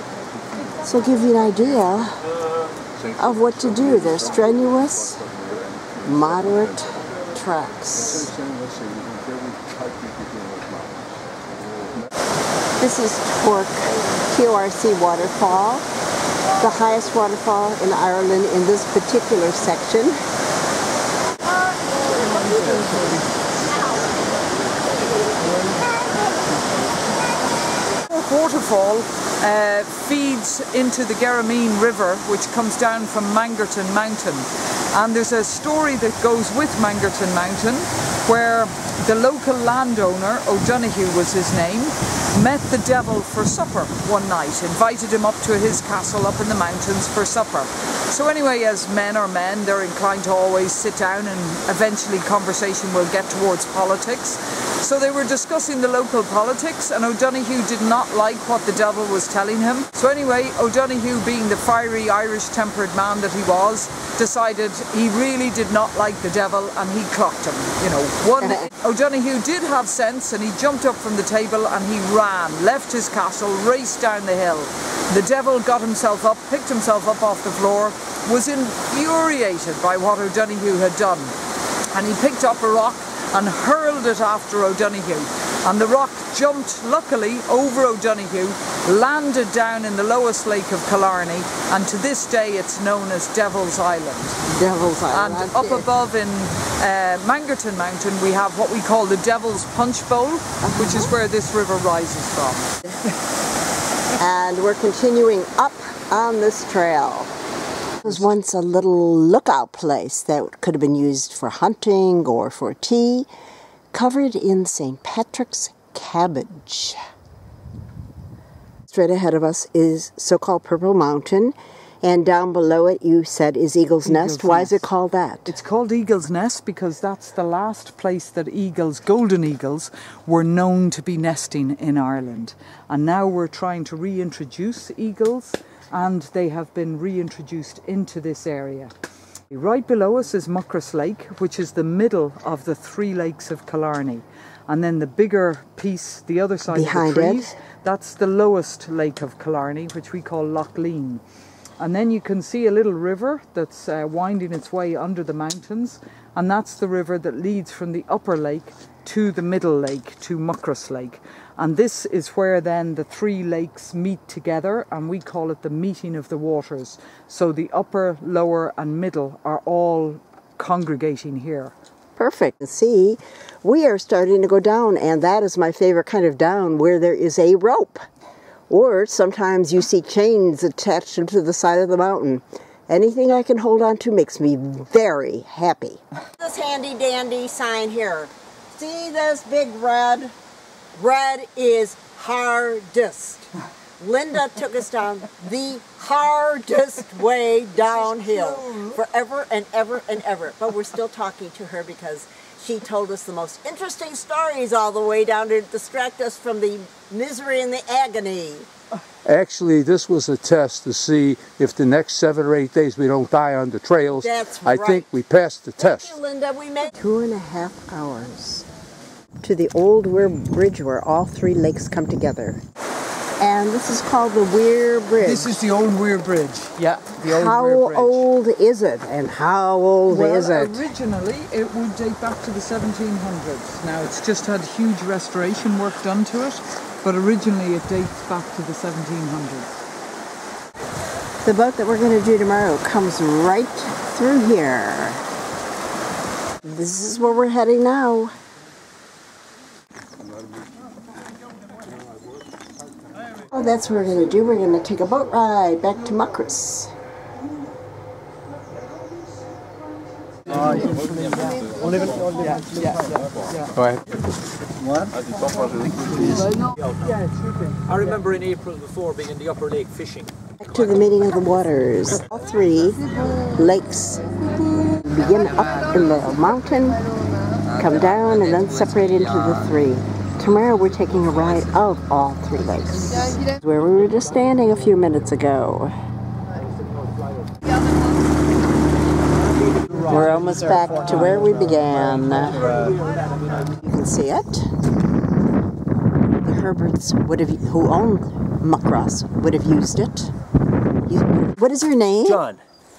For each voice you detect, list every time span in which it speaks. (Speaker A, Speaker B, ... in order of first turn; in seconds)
Speaker A: 0.8-2.2, 3.2-5.2, 6.0-8.3, 12.8-15.8, 16.6-20.2, 68.4-68.7, 94.5-95.9, 100.6-101.1, 104.2-107.3, 108.0-113.3, 113.9-117.0, 118.9-125.5, 146.7-147.6, 172.2-178.0, 178.7-190.3, 190.9-193.5, 194.0-208.7, 214.2-215.1, 215.8-218.7, 219.4-222.6, 223.4-225.5, 227.2-230.8, 241.4-245.2, 246.6-248.3, 253.5-256.9, 270.6-273.0, 273.5-274.2, 274.8-277.0, 277.8-285.9, 290.0-292.9, 293.8-294.7, 296.4-300.3, 301.1-302.5
Speaker B: 28.1-81.3, 81.9-94.4, 95.1-102.7, 124.0-124.8, 125.5-138.9, 139.5-151.2, 151.8-171.7, 197.8-199.0, 225.2-228.2, 230.1-239.8, 260.7-261.5, 262.4-263.7, 267.2-268.0
Speaker C: 209.2-216.2
Speaker D: 267.9-270.3, 292.6-293.0